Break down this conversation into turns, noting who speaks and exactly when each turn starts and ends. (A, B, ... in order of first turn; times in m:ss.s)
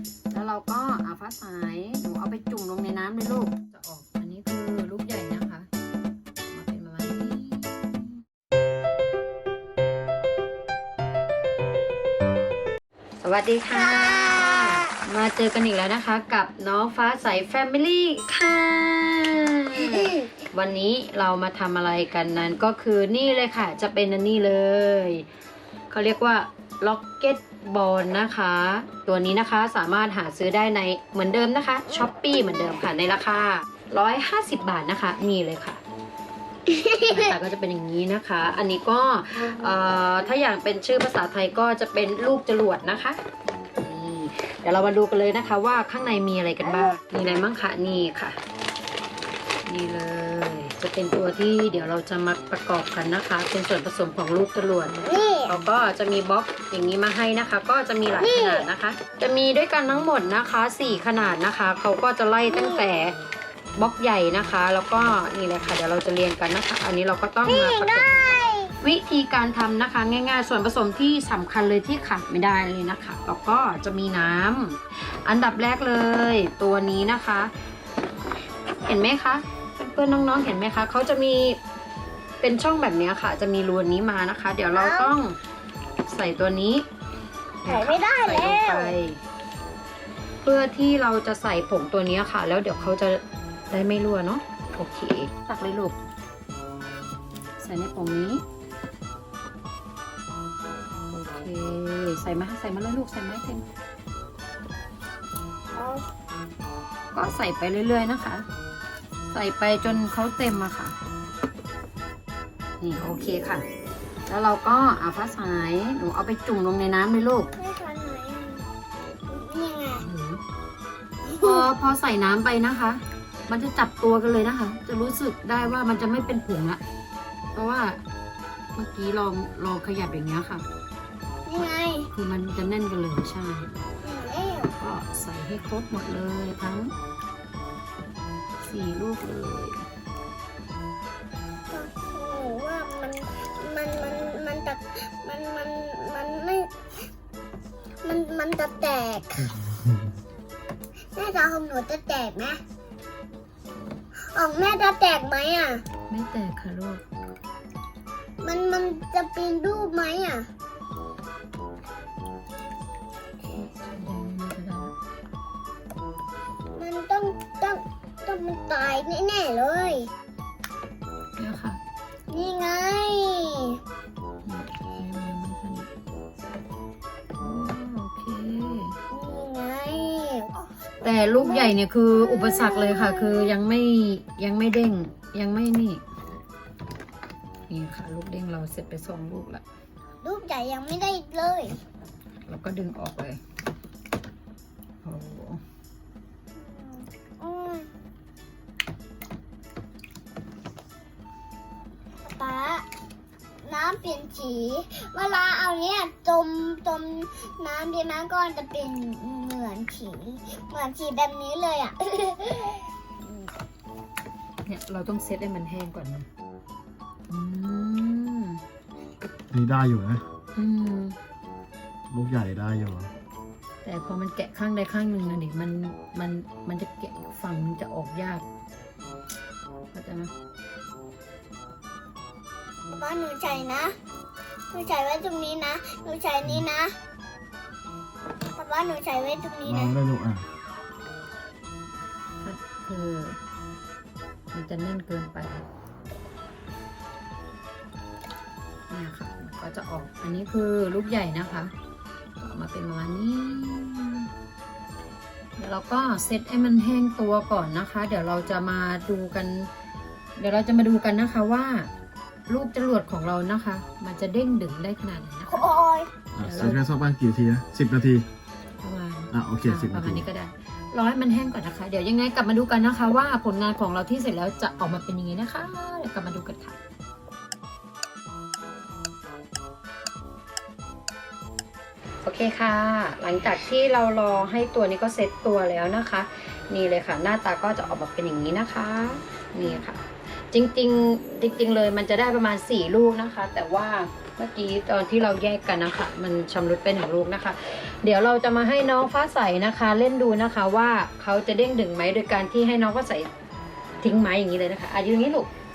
0:00.3-0:05.7 A
0:06.4-0:08.2 A
0:13.2-0:25.2 A
0:13.7-0:14.9 B
0:25.9-0:35.8 A
0:36.7-0:37.4 B
0:37.1-0:43.2 A
0:43.8-0:48.4 A
0:49.6-1:03.1 A
0:55.0-0:55.5 B
0:58.2-0:58.7 B
1:02.4-1:02.8 B
1:03.8-1:17.5 A
1:07.4-1:08.8 B
1:18.7-1:21.6 A
1:22.4-1:25.4 A
1:24.7-1:25.2 B
1:26.0-1:26.8 A
1:27.6-1:29.2 A
1:27.6-1:29.0 B
1:30.4-1:36.0 A
1:37.6-1:38.4 A
1:41.1-1:43.6 A
1:45.7-1:46.0 B
1:47.1-1:48.4 A
1:49.3-1:50.9 A
1:52.8-1:53.6 A
1:54.3-1:57.5 A
1:57.6-1:58.7 B
1:59.3-2:00.0 B
2:00.0-2:00.4 A
2:01.2-2:01.6 B
2:01.4-2:06.8 A
2:07.5-2:08.0 A
2:08.7-2:10.6 A
2:11.4-2:12.1 B
2:12.1-2:13.7 A
2:14.0-2:14.7 B
2:14.8-2:16.9 A
2:18.6-2:19.8 A
2:21.7-2:26.7 B
2:28.0-2:29.5 B
2:31.1-2:32.6 B
2:34.3-2:35.8 B
2:36.1-2:37.0 A
2:38.4-2:40.5 B
2:43.5-2:44.9 A
2:46.8-2:50.1 B
2:51.4-2:51.8 A
2:52.3-2:53.8 B
2:54.4-2:55.9 A
2:57.4-2:59.0 A
2:59.1-3:00.6 B
3:01.0-3:06.0 A
3:01.3-3:03.5 B
3:07.7-3:09.6 A
3:10.2-3:11.8 B
3:12.5-3:13.4 A
3:15.0-3:15.6 A
3:16.5-3:17.9 B
3:22.2-3:22.8 B
3:23.6-3:32.8 B
3:33.2-3:33.5 A
3:34.6-3:36.3 A
3:37.3-3:38.6 A
3:39.5-3:40.2 C
3:40.5-3:41.2 A
3:42.1-3:43.1 C
3:43.8-3:48.4 A
3:49.9-3:50.3 A
3:52.9-3:53.9 B
3:54.7-3:56.9 B
3:58.6-4:00.0 B
3:59.6-4:00.4 C
4:02.4-4:03.4 A
4:04.5-4:05.7 A
4:08.9-4:11.7 A
4:12.4-4:14.3 A
4:15.6-4:19.7 A
4:20.4-4:21.9 A
4:22.5-4:25.7 A
4:25.5-4:26.1 B
4:26.3-4:28.2 C
4:26.4-4:26.8 A
4:28.8-4:36.8 A
4:29.3-4:30.2 C
4:42.2-5:03.3 A
5:04.0-5:05.5 A